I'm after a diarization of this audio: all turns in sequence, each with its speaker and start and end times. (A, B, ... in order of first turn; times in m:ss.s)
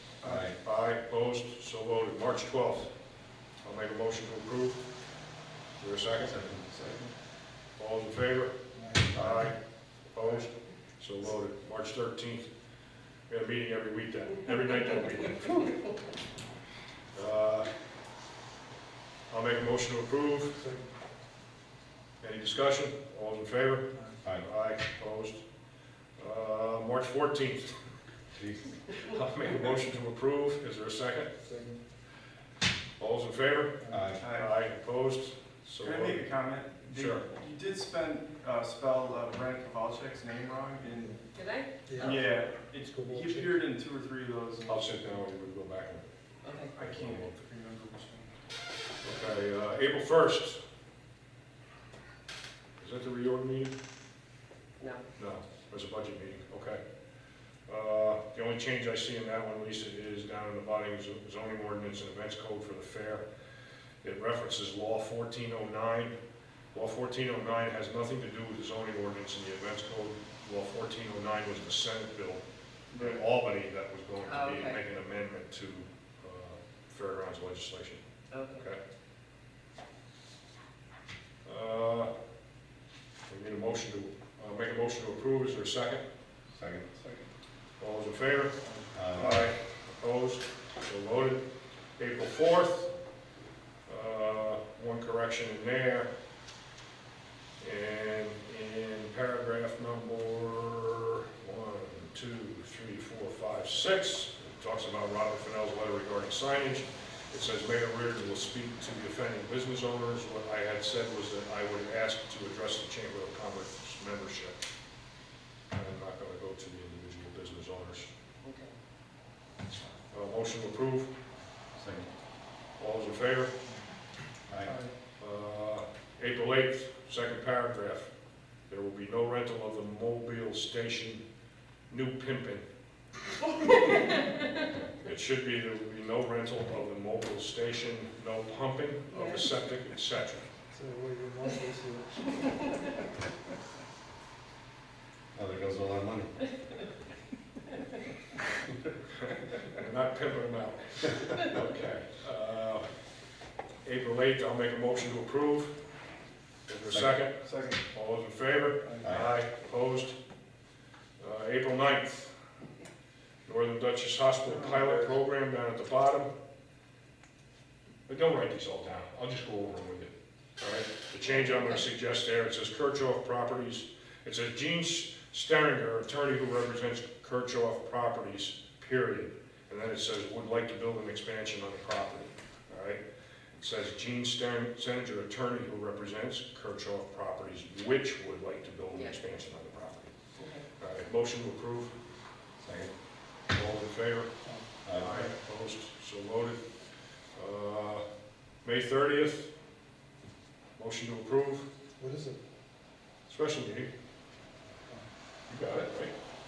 0:00.2-0:00.5 A
0:00.2-0:00.5 B
0:00.5-0:02.9 C
0:03.6-0:04.8 C
0:05.8-0:06.3 C
0:06.2-0:06.6 B
0:06.7-0:07.1 A
0:07.8-0:09.6 C
0:08.7-0:09.4 D
0:09.1-0:09.5 B
0:10.1-0:12.5 C
0:13.3-0:15.7 C
0:17.1-0:17.7 C
0:19.3-0:20.6 C
0:20.5-0:20.9 D
0:22.2-0:25.4 C
0:26.2-0:27.7 C
0:28.4-0:28.7 B
0:29.0-0:31.3 C
0:31.4-0:31.8 D
0:33.0-0:36.2 C
0:33.8-0:34.2 D
0:33.9-0:34.2 B
0:34.1-0:34.6 A
0:35.8-0:41.2 A
0:36.9-0:37.2 C
0:40.9-0:41.2 D
0:41.3-0:42.2 E
0:41.8-0:43.6 D
0:42.0-0:44.9 A
0:44.7-0:46.0 C
0:46.4-0:46.7 E
0:46.7-0:48.3 A
0:46.8-0:47.4 C
0:49.0-0:50.6 C
0:52.8-0:53.7 C
0:54.8-0:55.0 E
0:55.2-0:56.8 C
0:57.7-1:03.2 C
1:04.0-1:06.2 C
1:06.7-1:18.8 C
1:12.9-1:13.2 A
1:14.2-1:14.8 E
1:18.3-1:18.6 E
1:21.4-1:22.1 C
1:23.3-1:26.0 C
1:26.5-1:26.9 B
1:26.9-1:27.3 A
1:27.8-1:31.4 C
1:28.9-1:29.5 B
1:29.2-1:29.5 A
1:32.0-1:32.9 C
1:33.9-1:36.1 C
1:37.6-1:54.6 C
1:55.7-1:58.1 C
1:58.4-1:58.7 E
2:00.1-2:01.1 C
2:01.8-2:02.1 B
2:02.8-2:03.6 C
2:04.5-2:04.8 B
2:04.6-2:04.9 A
2:05.2-2:08.1 C
2:08.7-2:11.2 C
2:11.9-2:12.6 C
2:14.9-2:20.5 C
2:19.1-2:19.5 E
2:20.7-2:22.8 D
2:25.3-2:26.4 B
2:29.2-2:32.9 C
2:33.8-2:35.7 C
2:36.7-2:40.2 C
2:36.9-2:37.2 B
2:37.4-2:37.8 A
2:39.0-2:39.3 B
2:41.2-2:42.3 C
2:43.4-2:46.3 C
2:44.4-2:45.1 A
2:48.1-3:03.0 C
2:51.5-2:51.7 E
3:03.6-3:10.1 C
3:08.9-3:09.2 E
3:10.4-3:10.6 E
3:10.8-3:11.9 C
3:12.6-3:12.9 B
3:13.5-3:16.6 C
3:14.4-3:14.7 D
3:14.8-3:15.1 B
3:15.0-3:15.3 A
3:17.3-3:18.0 C
3:18.6-3:19.5 C
3:20.8-3:21.6 C
3:22.0-3:22.4 D
3:23.3-3:23.9 C
3:25.5-3:26.1 C